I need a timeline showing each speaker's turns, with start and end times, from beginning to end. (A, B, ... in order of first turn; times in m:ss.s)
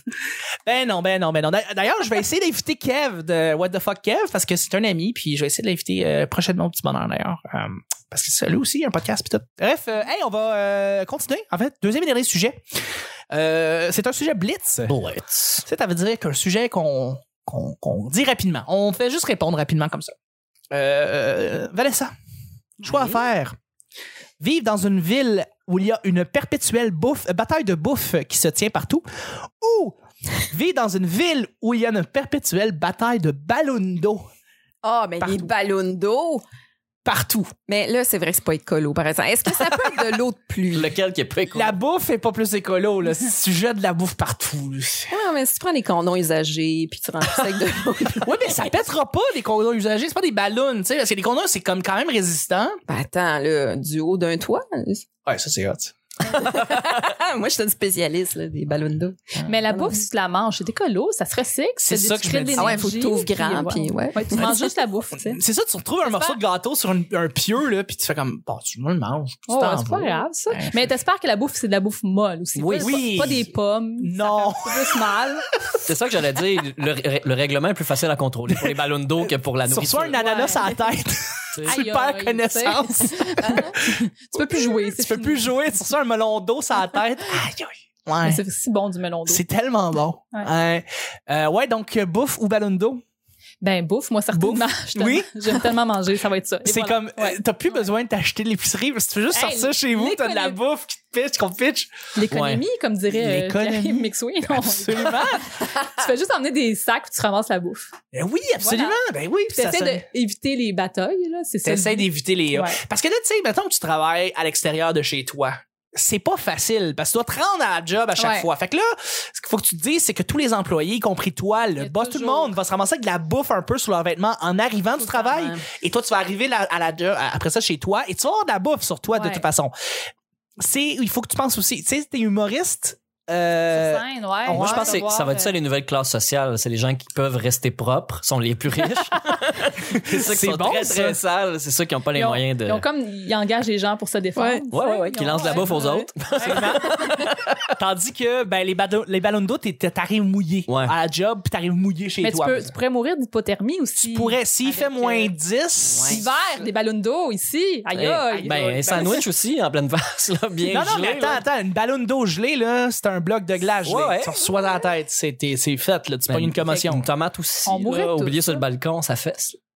0:00.6-0:12.6 A
0:13.3-0:15.0 A
0:14.9-0:15.6 B
0:15.6-0:20.1 A
0:20.7-0:22.1 A
0:22.8-0:23.6 A
0:24.4-0:29.0 A
0:29.6-0:34.2 A
0:34.8-0:36.4 C
0:35.2-0:35.5 A
0:37.0-0:37.5 A
0:37.7-0:40.9 C
0:40.7-0:41.8 B
0:41.6-0:45.1 A
0:45.1-0:48.7 C
0:48.2-0:52.8 A
0:52.9-0:55.0 C
0:55.3-0:55.9 A
0:56.3-1:00.0 C
0:59.5-1:05.4 D
1:01.8-1:02.9 A
1:02.6-1:04.8 C
1:05.2-1:10.8 A
1:06.0-1:06.4 D
1:09.5-1:15.5 D
1:12.6-1:13.4 B
1:12.8-1:13.5 A
1:14.0-1:14.9 A
1:15.9-1:20.2 B
1:19.7-1:28.4 A
1:20.2-1:20.9 D
1:21.6-1:25.5 D
1:28.2-1:29.4 D
1:29.3-1:33.0 A
1:33.6-1:37.9 D
1:34.3-1:35.4 A
1:36.6-1:41.9 A
1:39.3-1:40.6 D
1:42.2-1:47.9 D
1:42.3-1:42.6 B
1:43.1-1:45.4 A
1:48.1-1:50.1 A
1:48.6-1:49.0 D
1:49.5-1:52.8 D
1:51.6-2:09.7 A
1:58.2-1:58.5 D
2:01.8-2:02.6 D
2:05.0-2:05.6 C
2:09.1-2:09.5 D
2:10.6-2:15.0 A
2:13.7-2:15.5 D
2:14.5-2:22.8 B
2:20.0-2:21.2 A
2:22.1-2:26.7 D
2:24.4-2:24.6 C
2:24.7-2:27.6 B
2:26.4-2:27.1 A
2:27.8-2:32.7 A
2:30.7-2:30.9 B
2:32.2-2:35.3 D
2:34.0-2:36.7 A
2:36.0-2:39.2 D
2:38.0-2:41.4 B
2:38.3-2:39.1 A
2:40.7-2:47.1 A
2:43.8-2:44.5 B
2:46.3-2:49.6 B
2:47.7-2:48.6 D